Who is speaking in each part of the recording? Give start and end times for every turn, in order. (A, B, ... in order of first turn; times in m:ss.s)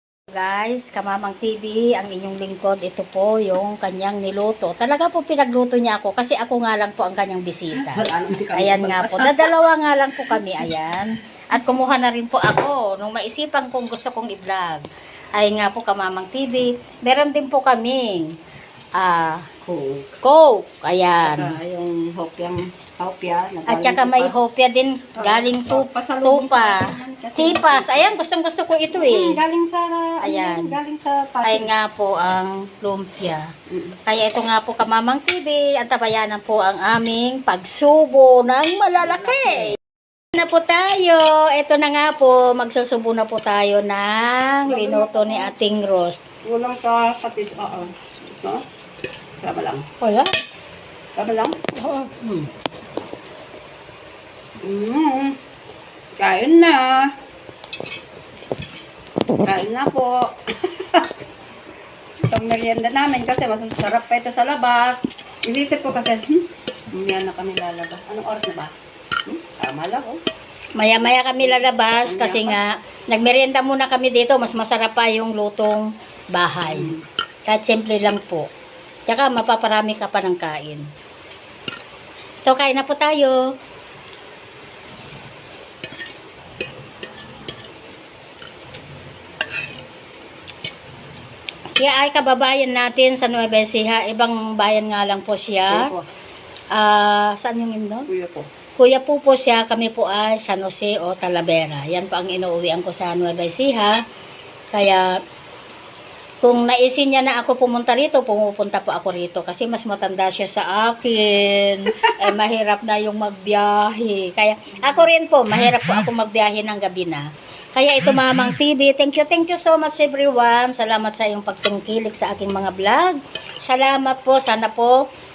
0:00.3-0:18.4 A
0:07.7-0:09.5 B
0:19.0-0:19.5 A
0:19.6-0:20.1 B
0:20.2-0:21.6 A
0:21.2-0:24.4 B
0:23.7-0:29.4 A
0:25.2-0:28.2 B
0:28.9-0:31.7 B
0:30.2-0:30.8 A
0:31.4-0:33.5 A
0:33.7-0:34.0 B
0:34.0-0:39.8 A
0:39.0-0:39.8 B
0:40.3-0:46.2 A
0:44.7-0:45.5 B
0:46.4-0:48.6 B
0:49.4-0:49.8 B
0:50.0-0:50.3 A
0:51.2-0:51.6 B
0:51.8-0:52.5 A
0:54.6-0:55.4 B
0:56.2-0:57.1 B
0:59.4-1:01.1 B
1:02.3-1:08.7 B
1:09.2-1:10.2 B
1:10.8-1:16.9 A
1:11.4-1:12.6 B
1:16.7-1:17.0 B
1:17.5-1:18.5 A
1:19.1-1:20.9 A
1:22.4-1:23.4 A
1:31.8-1:35.9 A
1:35.7-1:36.1 B
1:36.7-1:38.1 A
1:38.1-1:38.5 B
1:38.8-1:44.0 A
1:44.7-1:45.1 A
1:46.4-2:05.0 A